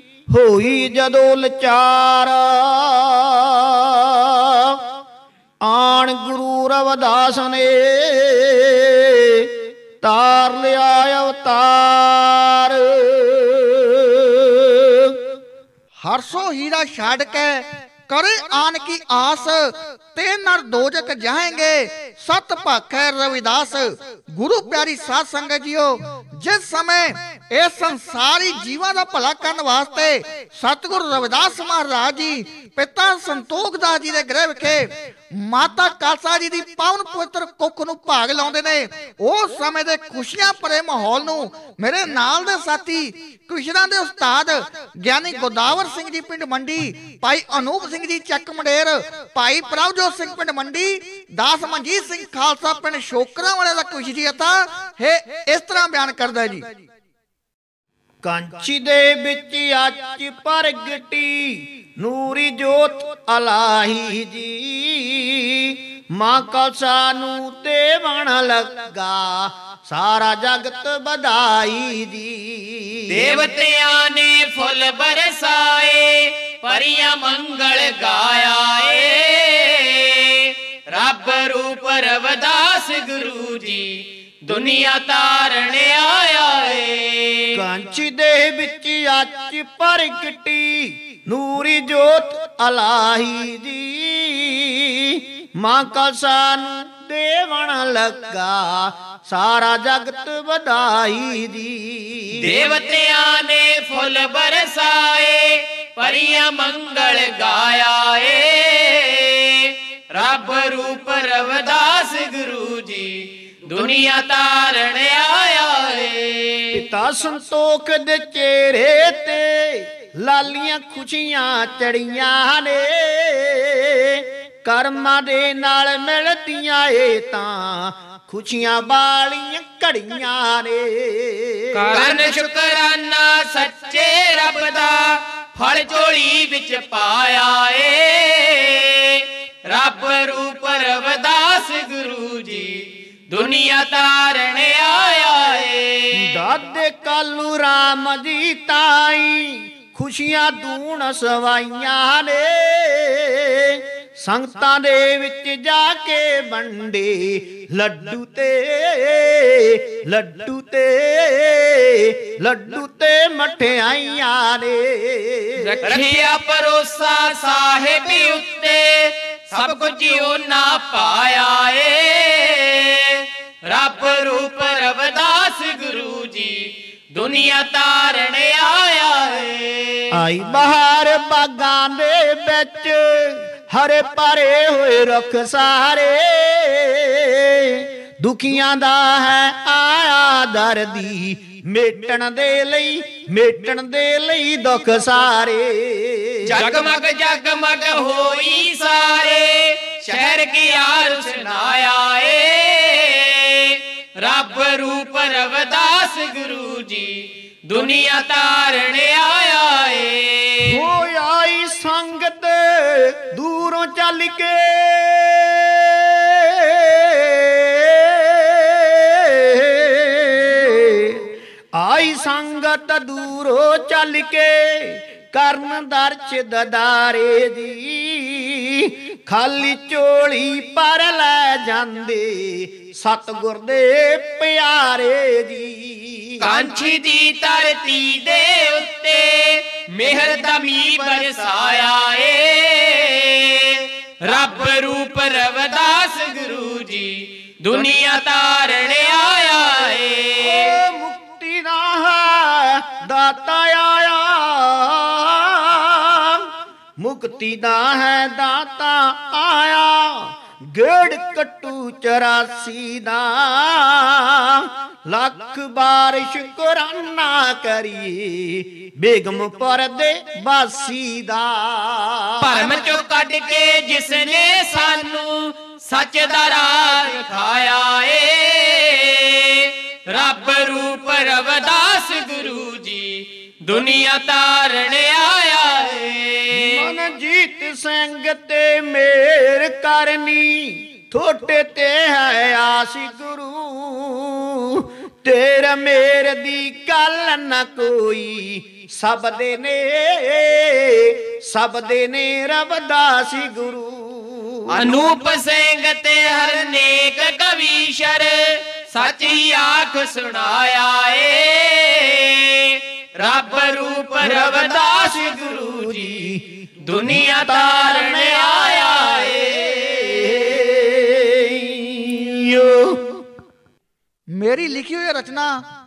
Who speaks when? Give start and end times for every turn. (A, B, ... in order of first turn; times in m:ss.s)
0:00.3-0:04.8 A
0:05.6-0:09.5 A
0:10.0-0:15.1 A
0:16.0-0:56.6 B
0:58.2-1:13.2 A
1:13.1-1:27.6 C
1:27.5-1:42.5 A
1:42.3-1:56.8 C
1:56.7-2:12.2 A
2:11.7-2:26.4 C
2:26.1-2:45.8 A
2:45.6-3:00.2 C
3:00.1-3:16.5 A
3:16.4-3:30.8 C
3:30.6-3:56.5 A
3:56.4-4:10.7 C
4:10.4-4:16.4 A
4:17.0-4:32.8 A
4:32.4-4:46.9 C
4:46.5-5:04.9 A
5:04.7-5:19.7 C
5:14.2-5:23.1 A
5:24.3-5:25.6 B